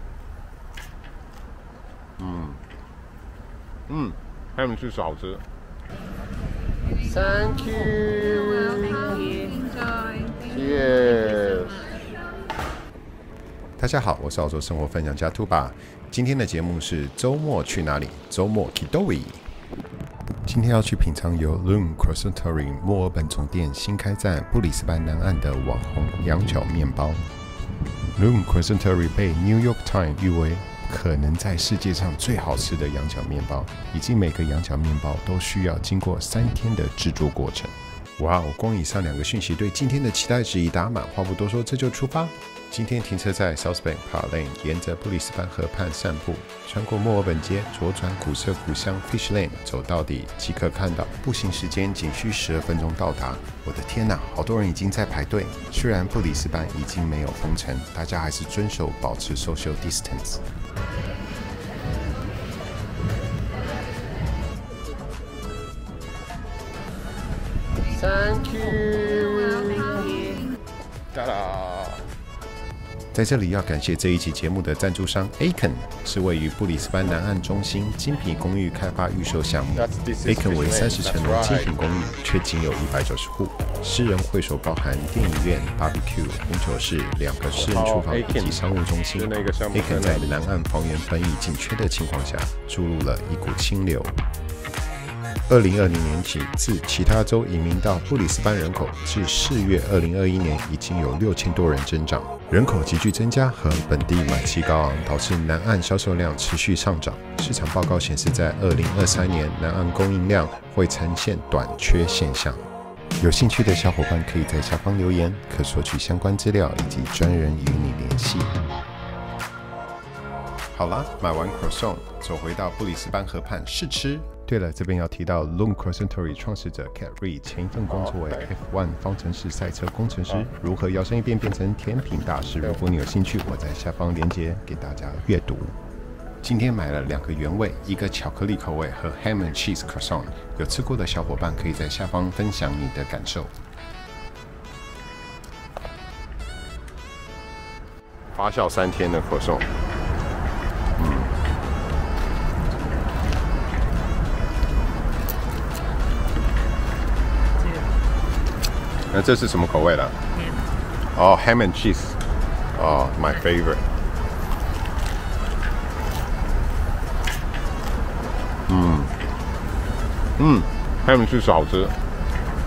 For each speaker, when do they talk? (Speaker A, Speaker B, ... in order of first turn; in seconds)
Speaker A: 2.2-2.6, 3.9-5.4, 7.0-9.8, 10.4-11.9, 67.8-70.5, 71.1-72.0, 79.8-81.7, 87.5-88.6, 89.1-90.3, 127.9-128.5, 159.1-159.4, 161.2-162.2, 162.9-163.8, 170.4-171.9
Speaker B: 13.8-19.5, 20.4-27.3, 28.1-60.4, 73.1-94.2, 95.5-112.7, 113.2-118.6, 120.7-135.8, 136.4-143.6, 148.4-149.6, 151.0-151.3, 159.5-160.1, 162.8-163.6, 168.7-169.1